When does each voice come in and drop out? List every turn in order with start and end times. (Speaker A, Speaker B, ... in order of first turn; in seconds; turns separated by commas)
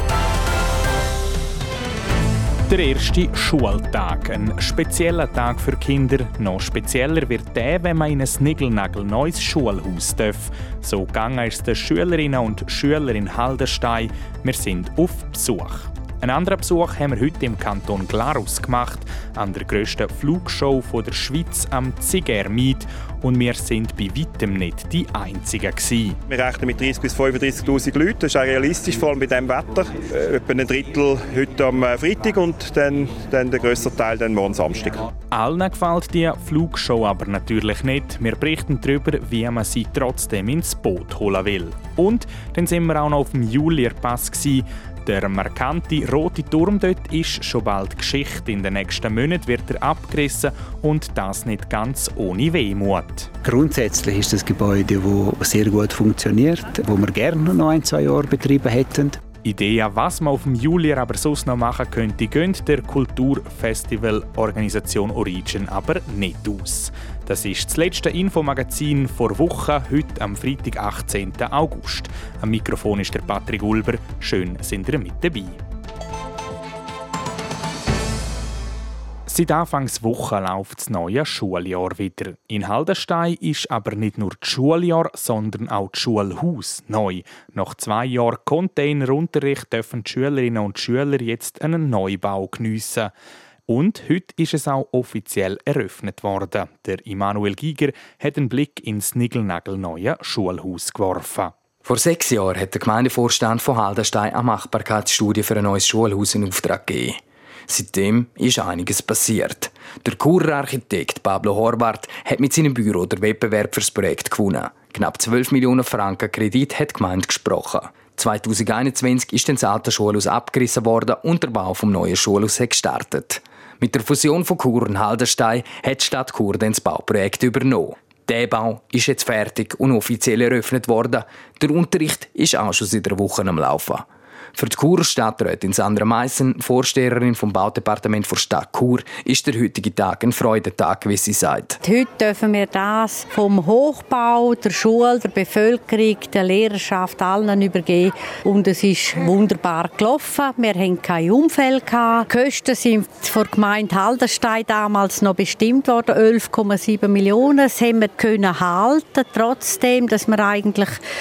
Speaker A: 2.7-26.2, Speaker B: 26.3-35.0, Speaker A: 35.3-53.3, Speaker C: 53.4-59.2, Speaker A: 59.4-75.6, Speaker A: 79.3-93.1, Speaker A: 93.7-101.5, Speaker D: 101.8-141.8, Speaker E: 141.8-161.0